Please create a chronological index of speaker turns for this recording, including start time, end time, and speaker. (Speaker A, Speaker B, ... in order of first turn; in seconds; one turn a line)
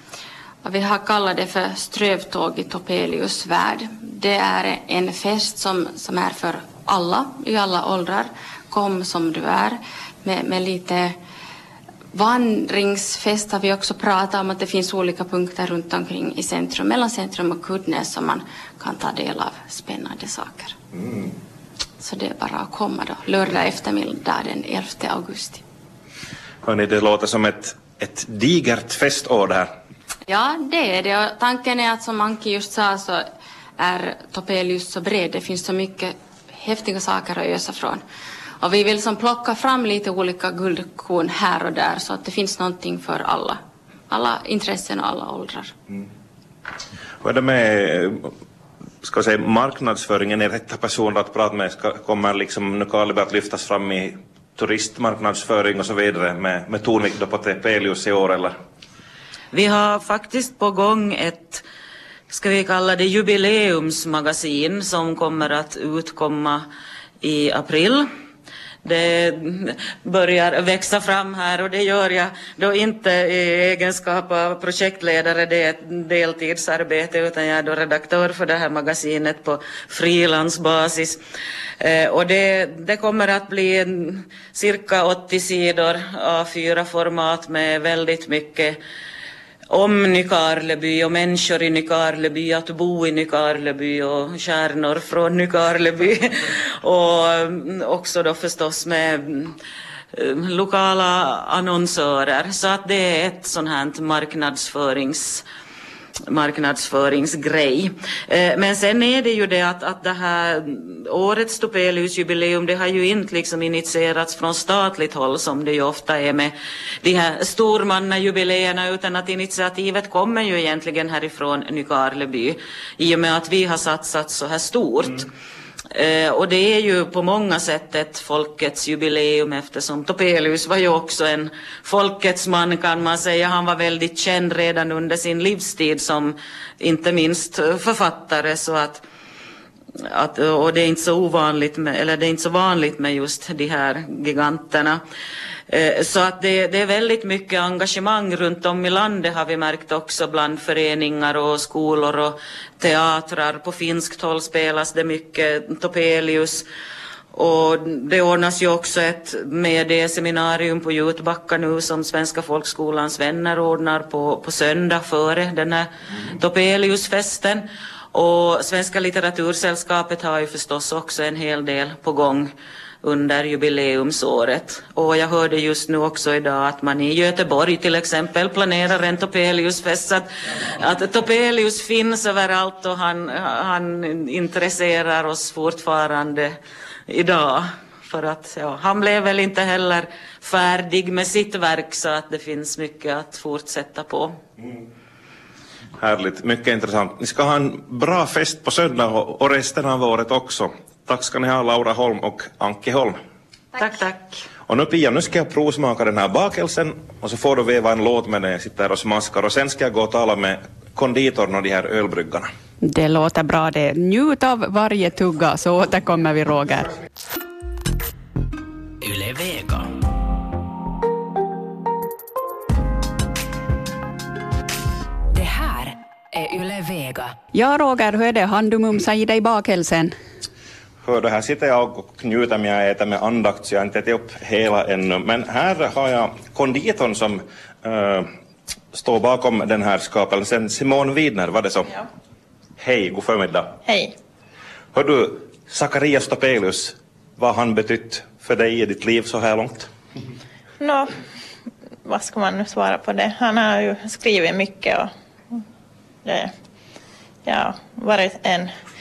Speaker A: 0.6-11.2
Speaker A: 12.1-20.8
Speaker B: 21.0-21.3
Speaker A: 22.0-25.6
Speaker B: 26.6-29.7
Speaker A: 30.3-33.2
Speaker A: 33.8-38.0
Speaker A: 38.6-43.6
Speaker A: 44.1-45.7
Speaker B: 47.2-48.3
Speaker B: 49.0-58.5
Speaker C: 59.5-61.6
Speaker C: 62.3-66.7
Speaker C: 67.2-68.1
Speaker C: 68.8-81.2
Speaker C: 81.8-88.8
Speaker C: 89.7-99.6
Speaker C: 100.1-105.4
Speaker C: 106.3-116.5
Speaker C: 117.0-125.3
Speaker C: 125.9-139.0
Speaker C: 140.1-145.0
Speaker C: 145.7-156.7
Speaker C: 157.3-172.5
Speaker C: 173.0-186.6
Speaker C: 187.1-194.4
Speaker B: 196.0-203.2
Speaker C: 203.8-204.4
Speaker B: 204.7-212.5
Speaker D: 212.8-216.9
Speaker D: 219.0-219.9
Speaker D: 225.3-230.2
Speaker B: 231.0-238.3
Speaker B: 238.9-242.0
Speaker B: 242.8-243.8
Speaker E: 243.9-244.1
Speaker B: 244.9-249.9
Speaker E: 250.8-251.1
Speaker E: 252.1-255.1
Speaker E: 256.2-256.5
Speaker E: 257.4-258.7